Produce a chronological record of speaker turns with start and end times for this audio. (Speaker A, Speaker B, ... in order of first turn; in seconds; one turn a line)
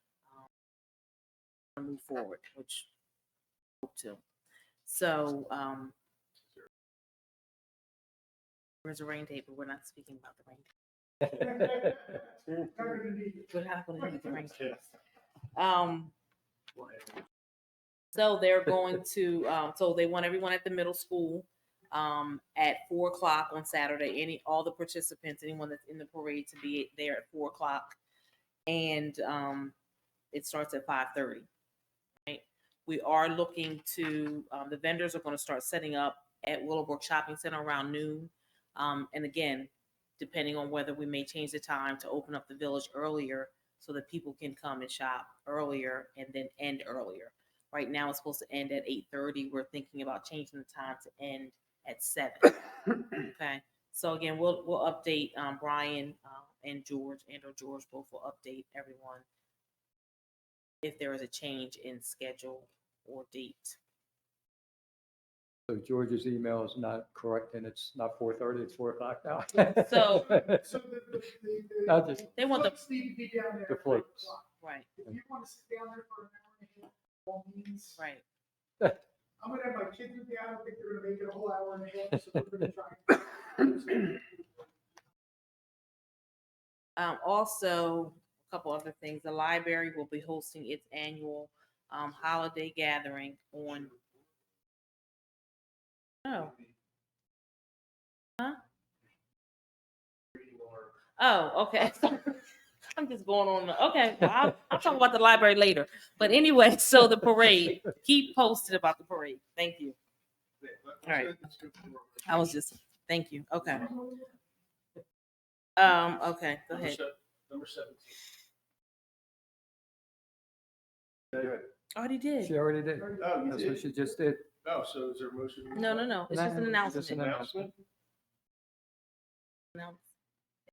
Speaker A: 1.8-2.9
Speaker A: 3.8-4.2
Speaker A: 4.8-5.9
Speaker A: 8.8-10.7
Speaker B: 11.2-13.5
Speaker A: 13.5-14.7
Speaker C: 14.4-14.8
Speaker A: 15.5-16.1
Speaker C: 16.8-17.2
Speaker A: 18.1-28.0
Speaker A: 28.7-29.8
Speaker A: 30.3-31.5
Speaker A: 32.3-59.2
Speaker A: 60.8-63.8
Speaker D: 65.7-70.6
Speaker A: 69.8-70.3
Speaker B: 70.1-74.5
Speaker D: 71.8-72.3
Speaker A: 72.3-72.8
Speaker D: 73.7-74.3
Speaker A: 74.6-74.9
Speaker B: 75.0-78.0
Speaker A: 78.0-78.2
Speaker B: 79.4-84.2
Speaker A: 87.0-93.9
Speaker A: 96.2-96.5
Speaker C: 100.3-100.9
Speaker A: 101.2-110.0
Speaker C: 110.6-112.6
Speaker A: 111.0-111.3
Speaker A: 112.2-113.9
Speaker A: 115.8-117.0
Speaker C: 116.7-118.2
Speaker C: 121.3-121.7
Speaker A: 121.9-122.5
Speaker D: 122.4-124.5
Speaker C: 123.2-123.8
Speaker C: 124.6-126.2
Speaker A: 125.7-127.3
Speaker D: 126.3-127.6
Speaker C: 126.8-127.8